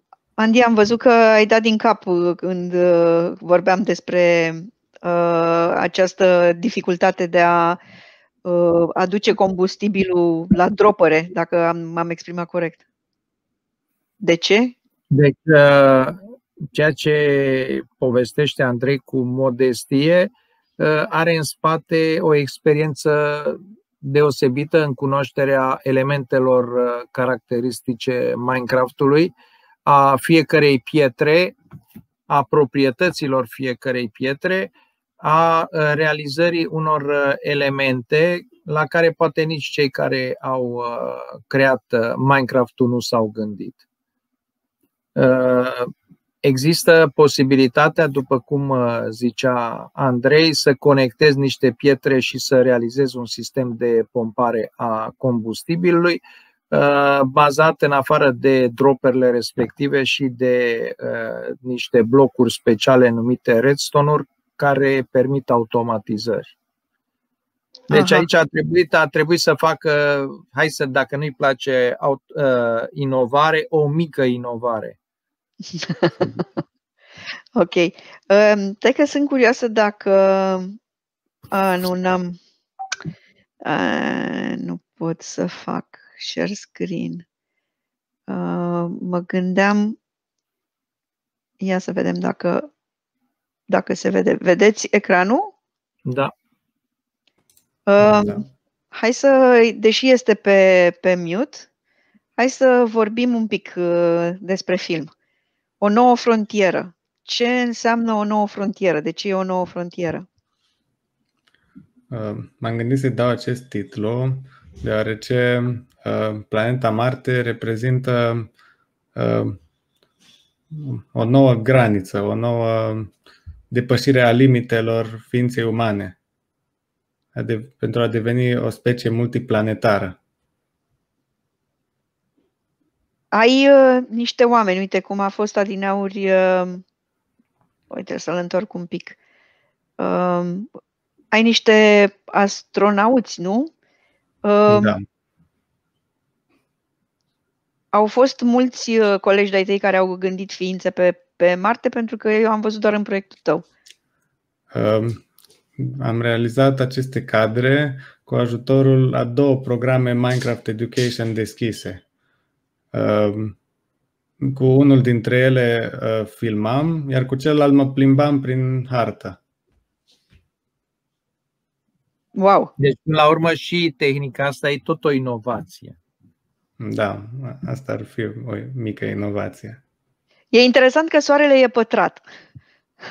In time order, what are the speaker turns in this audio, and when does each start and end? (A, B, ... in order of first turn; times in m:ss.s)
0:00.4-0:07.8 A
0:08.4-0:12.8 A
0:14.2-0:14.8 A
0:15.1-0:16.2 B
0:16.7-0:29.3 B
0:29.8-0:31.6 B
0:32.3-0:43.8 B
0:45.2-0:45.9 B
0:46.4-1:06.5 B
1:07.9-1:15.0 B
1:07.9-1:08.2 A
1:15.7-1:16.4 A
1:17.6-1:20.8 A
1:21.5-1:22.4 A
1:23.6-1:27.2 A
1:28.3-1:30.0 A
1:31.6-1:32.7 A
1:33.7-1:35.5 A
1:36.1-1:36.3 B
1:37.9-1:41.7 A
1:38.0-1:38.4 C
1:42.4-1:45.1 A
1:45.8-1:50.2 A
1:52.1-1:58.5 C
1:59.2-1:59.6 C
2:00.7-2:03.1 C
2:03.7-2:06.2 C
2:07.4-2:10.2 C
2:13.3-2:16.8 A
2:17.9-2:19.2 A
2:20.0-2:20.7 A
2:21.3-2:23.7 A
2:24.4-2:25.0 A
2:24.7-2:25.0 C
2:27.9-2:33.6 A
2:34.7-2:35.2 C
2:35.8-2:42.0 C
2:42.9-2:43.6 C
2:44.4-2:49.4 C
2:52.4-2:52.7 A
2:52.8-2:56.0 B
2:56.8-2:59.8 C
3:00.5-3:02.2 A